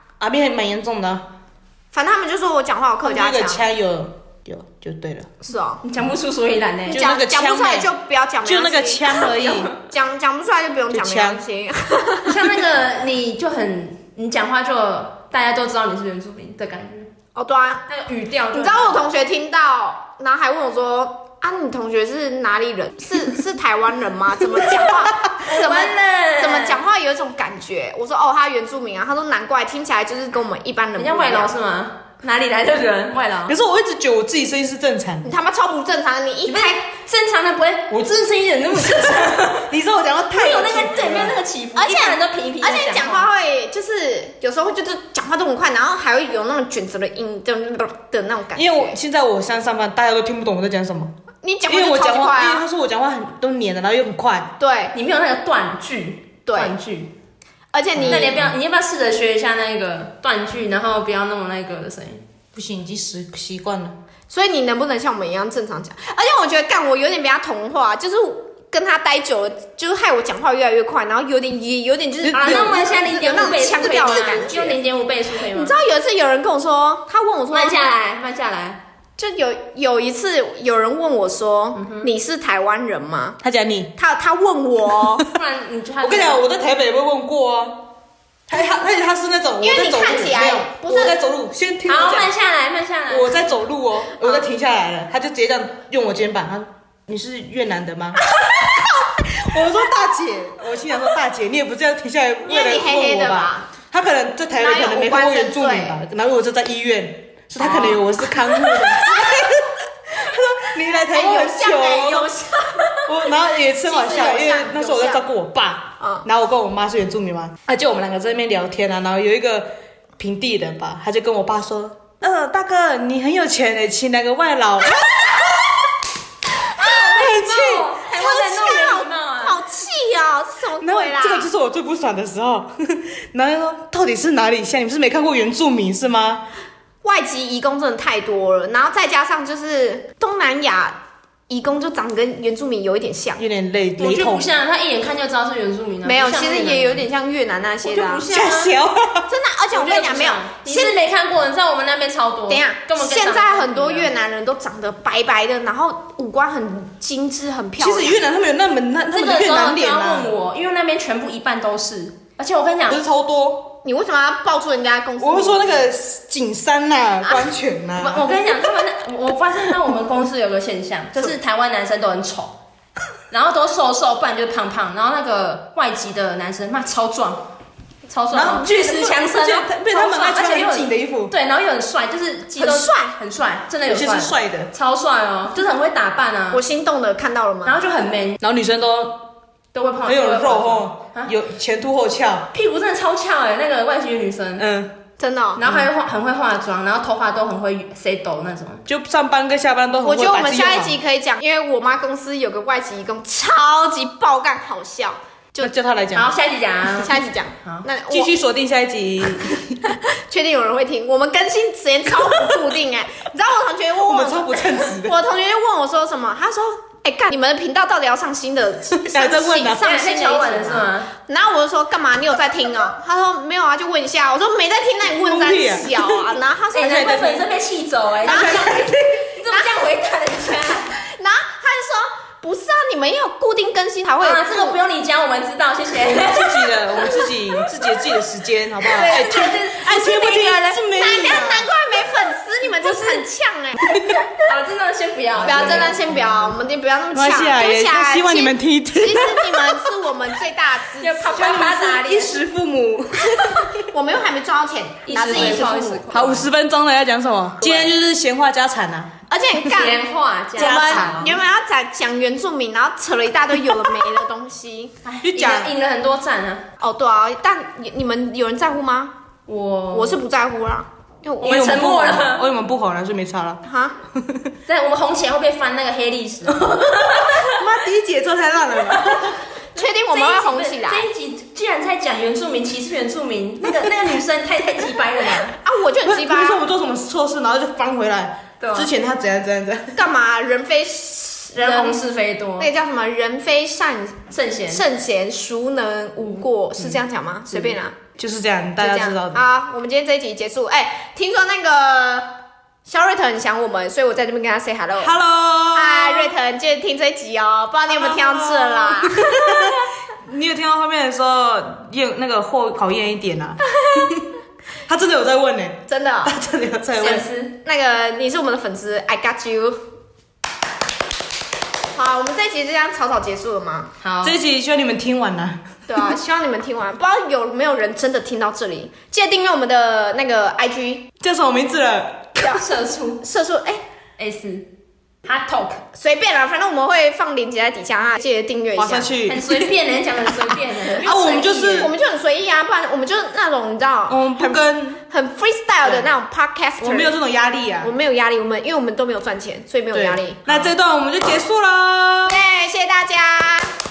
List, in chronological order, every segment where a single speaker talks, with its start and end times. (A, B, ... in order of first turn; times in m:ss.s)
0:00.2-0:01.2 A
0:01.9-0:03.6 B
0:03.0-0:05.3 A
0:05.4-0:05.8 B
0:05.8-0:07.0 C
0:06.9-0:07.9 A
0:06.9-0:12.6 B
0:08.4-0:09.7 A
0:09.4-0:09.6 C
0:10.9-0:11.4 A
0:12.2-0:17.1 C
0:17.3-0:17.9 B
0:17.9-0:19.0 C
0:18.5-0:31.5 B
0:25.3-0:26.8 C
0:31.0-0:33.6 C
0:33.5-0:35.3 A
0:35.2-0:36.8 B
0:36.4-0:39.7 C
0:39.7-0:41.4 A
0:40.3-0:43.3 C
0:41.8-0:48.9 B
0:48.5-0:51.1 A
0:51.4-0:52.6 B
0:51.7-0:54.5 A
0:54.6-0:54.9 B
0:54.9-0:57.1 C
0:56.5-0:56.7 B
0:57.7-0:58.4 B
0:58.0-0:58.5 A
0:58.0-1:02.2 C
1:02.5-1:04.0 A
1:04.3-1:14.8 B
1:12.2-1:13.0 A
1:12.3-1:15.8 C
1:15.5-1:17.8 B
1:17.5-1:18.8 C
1:19.2-1:23.4 B
1:21.8-1:22.1 C
1:23.4-1:23.9 A
1:24.0-1:25.3 B
1:25.3-1:26.4 C
1:26.0-1:27.9 A
1:28.5-1:32.3 A
1:29.6-1:31.2 B
1:31.8-1:33.5 C
1:33.1-1:38.2 A
1:38.4-1:39.2 B
1:38.8-1:52.3 A
1:42.4-1:43.7 B
1:44.6-1:46.0 B
1:47.6-1:48.1 B
1:48.8-1:49.5 B
1:51.1-1:53.1 B
1:53.0-2:05.7 A
1:53.8-1:55.2 B
1:56.0-1:56.2 B
2:06.7-2:09.6 C
2:06.8-2:07.9 A
2:06.8-2:07.4 B
2:08.1-2:11.5 B
2:10.8-2:16.4 A
2:17.0-2:21.0 B
2:21.5-2:23.4 B
2:23.4-2:24.5 A
2:24.0-2:27.0 C
2:26.0-2:28.3 B
2:27.8-2:28.7 C
2:28.3-2:29.3 A
2:29.3-2:31.0 B
2:29.7-2:34.1 C
2:32.5-2:38.2 B
2:37.8-2:40.3 A
2:39.1-2:43.0 C
2:42.9-2:43.7 A
2:43.8-2:45.9 B
2:45.2-2:48.3 A
2:48.0-2:52.6 C
2:53.3-2:57.5 C
2:58.1-3:06.6 C
2:58.3-3:01.3 A
3:02.6-3:03.2 B
3:03.8-3:04.7 A
3:06.5-3:07.8 B
3:07.6-3:08.4 C
3:08.4-3:09.3 A
3:09.7-3:11.3 C
3:10.0-3:12.5 A
3:12.5-3:14.7 C
3:14.6-3:15.0 A
3:15.2-3:15.6 B
3:15.6-3:18.8 C
3:18.9-3:21.0 A
3:20.0-3:25.7 B
3:25.6-3:26.3 A
3:26.1-3:27.8 C
3:26.8-3:28.3 B
3:28.1-3:30.0 A
3:30.0-3:47.4 B
3:34.0-3:35.2 A
3:38.9-3:39.8 A
3:39.7-3:41.1 C
3:45.2-3:46.3 A
3:46.7-3:50.9 C
3:46.9-3:47.3 A
3:48.2-3:48.8 B
3:48.2-3:49.0 A
3:49.5-3:49.8 B
3:51.0-3:54.8 B
3:54.2-3:57.2 C
3:56.0-4:01.7 A
3:58.9-3:59.5 B
3:58.9-4:00.8 C
4:00.9-4:04.0 B
4:02.8-4:03.2 C
4:03.8-4:04.2 A
4:04.4-4:06.4 C
4:05.4-4:06.3 A
4:05.4-4:11.8 B
4:07.1-4:09.9 A
4:11.0-4:12.4 C
4:11.3-4:13.8 A
4:13.8-4:16.1 B
4:15.0-4:16.5 C
4:15.3-4:19.7 A
4:17.6-4:17.9 B
4:19.3-4:24.9 B
4:19.7-4:21.4 C
4:20.6-4:21.4 A
4:25.0-4:26.6 C
4:25.2-4:25.7 A
4:26.8-4:29.1 B
4:29.5-4:30.2 C
4:29.9-4:31.7 B
4:31.4-4:32.4 C
4:31.4-4:33.6 A
4:33.6-4:33.9 B
4:34.1-4:34.5 A
4:34.6-4:37.6 C
4:37.3-4:39.4 A
4:39.8-4:41.0 B
4:39.8-4:45.5 C
4:45.6-4:46.6 B
4:46.0-4:50.0 A
4:48.6-4:48.9 C
4:49.9-4:52.0 B
4:51.6-4:52.7 C
4:52.6-4:58.0 B
4:54.3-4:54.8 C
4:58.2-4:59.4 A
4:58.8-5:05.1 B
5:05.0-5:06.3 A
5:05.7-5:09.5 B
5:07.9-5:14.2 A
5:13.7-5:14.2 B
5:14.9-5:17.3 A
5:15.9-5:16.4 B
5:17.0-5:17.5 C
5:17.6-5:19.8 B
5:21.9-5:23.9 B
5:24.0-5:24.4 C
5:24.2-5:25.6 A
5:25.9-5:31.1 B
5:31.2-5:32.3 A
5:32.4-5:33.2 C
5:33.2-5:33.8 B
5:34.2-5:34.7 C
5:35.2-5:35.8 C
5:35.9-5:39.1 B
5:38.8-5:39.7 A
5:39.2-5:41.9 C
5:41.0-5:41.9 A
5:41.8-5:47.1 B
5:44.1-5:45.0 A
5:46.8-5:47.9 A
5:47.8-5:50.7 B
5:49.9-5:52.4 A
5:52.2-5:53.7 B